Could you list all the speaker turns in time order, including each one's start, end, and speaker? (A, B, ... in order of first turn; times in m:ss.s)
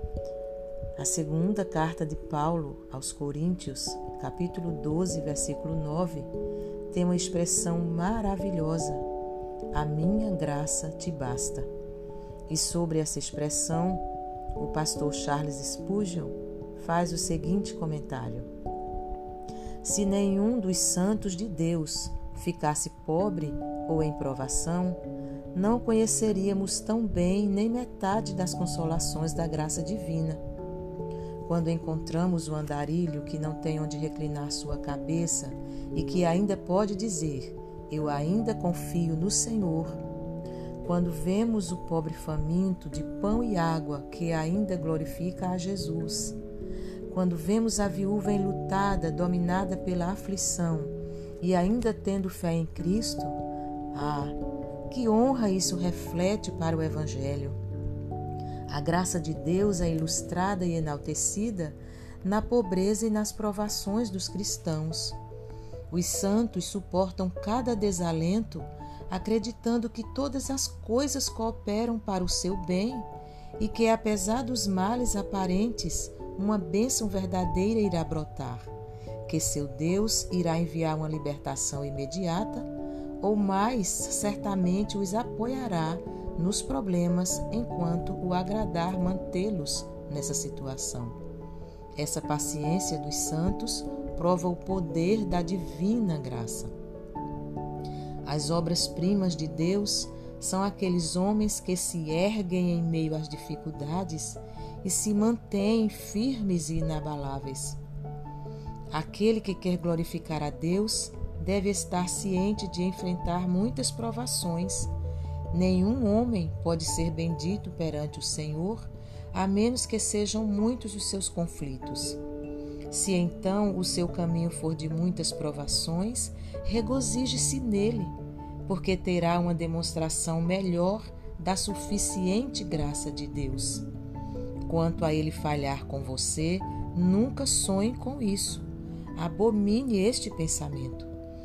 0:01.0-0:06.3 A
0:06.9-0:09.0 A
0:09.7-0:11.7 A
0:12.5-0:14.0 A
0:14.6-0:18.5 A
0:19.8-0:25.0 A
0:25.5-0:30.4 A
0:31.4-0:40.0 A
0:40.8-0:46.4 A
0:47.1-0:53.4 A
0:53.9-0:54.4 A
0:54.9-0:57.6 A
0:58.7-1:05.2 A
1:05.9-1:13.1 A
1:13.6-1:18.7 A
1:19.3-1:22.7 A
1:23.2-1:31.2 A
1:32.0-1:36.7 A
1:38.2-1:47.8 A
1:48.9-1:54.9 A
1:55.5-2:02.2 A
2:02.9-2:08.2 A
2:08.7-2:13.9 A
2:14.6-2:21.1 A